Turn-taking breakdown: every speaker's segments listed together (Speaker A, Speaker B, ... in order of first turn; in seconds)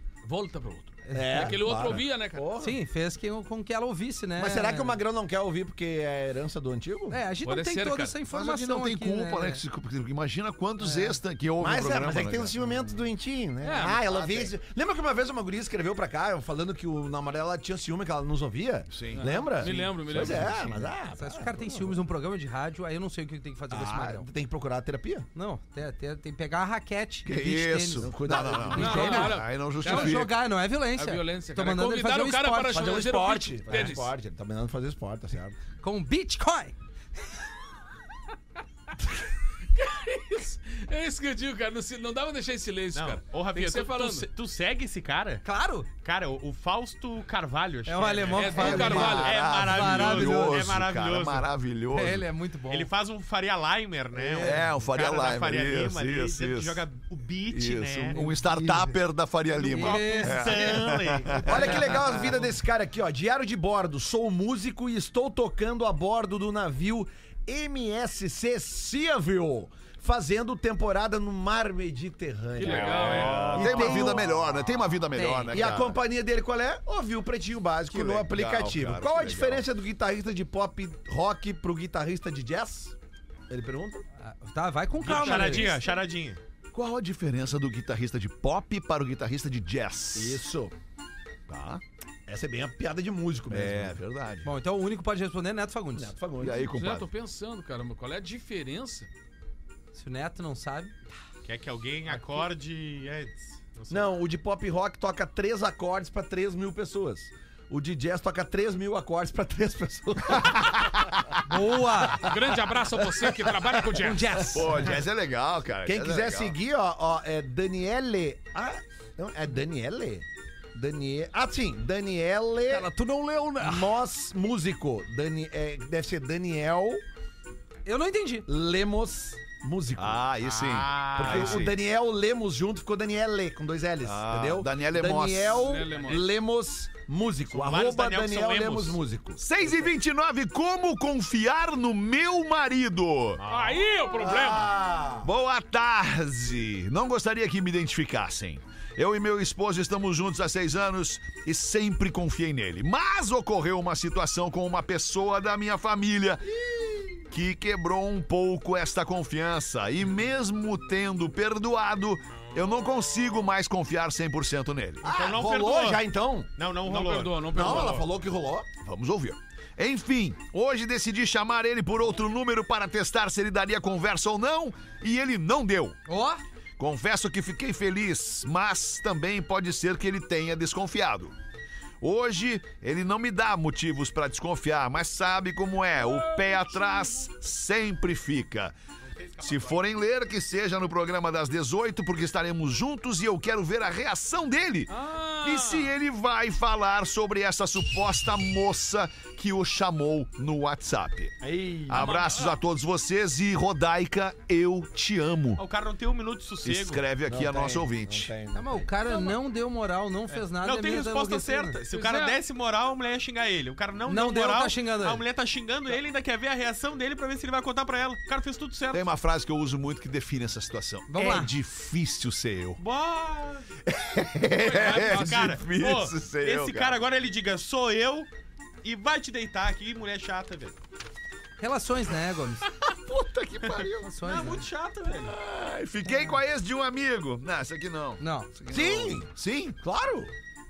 Speaker A: 0.2-2.5, 7.4-8.1, 13.6-14.0, 19.1-20.9, 28.7-30.3, 30.9-34.1, 39.7-44.3, 48.3-49.4, 72.6-74.1, 96.7-99.1, 112.2-114.5, 135.5-136.3, 143.5-144.7, 166.8-168.1, 185.9-187.3, 194.9-195.9, 201.9-202.6, 211.9-212.4, 224.6-225.5
Speaker B: 1.0-1.6, 2.6-5.0, 7.1-9.6, 10.8-11.1, 21.1-24.3, 25.3-28.1, 28.7-33.0, 35.8-36.7, 45.4-45.9, 47.9-50.7, 51.9-52.9, 54.1-54.6, 58.1-59.0, 59.6-60.6, 75.1-75.6, 84.2-85.8, 94.4-96.1, 99.9-100.9, 111.5-112.3, 114.0-114.9, 122.7-123.9, 127.8-128.5, 176.1-176.4, 208.5-211.8, 214.1-215.2, 221.1-221.5, 231.6-232.7, 234.0-234.7, 238.2-238.5
Speaker C: 1.1-2.8, 4.4-7.2, 11.6-22.0, 23.7-25.3, 28.0-29.3, 32.7-35.6, 48.7-49.0, 61.4-74.5, 75.5-83.0, 83.5-84.0, 90.1-90.7, 92.3-94.0, 95.9-96.7, 103.9-111.1, 113.2-114.1, 115.8-122.9, 123.6-127.0, 128.5-130.3, 131.2-139.4, 144.2-145.3, 156.5-157.2, 165.0-166.5, 167.5-168.7, 201.4-202.2, 207.2-208.9, 238.7-239.3, 239.8-240.3
Speaker D: 8.3-12.6, 14.1-14.5, 18.9-20.7, 27.2-30.3, 48.6-52.3, 54.4-56.8, 57.5-62.1, 72.6-76.0, 77.9-79.7, 86.7-90.4, 91.5-91.8, 93.5-94.5, 96.4-97.1, 110.3-111.6, 114.5-116.6, 129.9-131.8, 134.0-135.9, 139.4-143.4, 145.2-156.5, 157.3-165.0, 168.8-176.0, 176.8-181.3, 182.0-188.8, 189.4-205.6, 206.6-208.3, 218.9-222.8, 223.8-227.0, 232.9-234.1, 235.2-239.8
Speaker E: 42.9-45.4, 46.0-51.4, 52.7-58.2, 59.6-62.3, 72.7-73.7, 85.0-86.4, 101.4-104.1, 130.4-131.7, 137.5-139.0, 143.4-143.8, 165.0-168.0, 189.0-189.8, 205.6-207.0, 210.3-219.0, 222.8-223.7, 224.7-228.3, 228.8-230.8, 234.2-235.3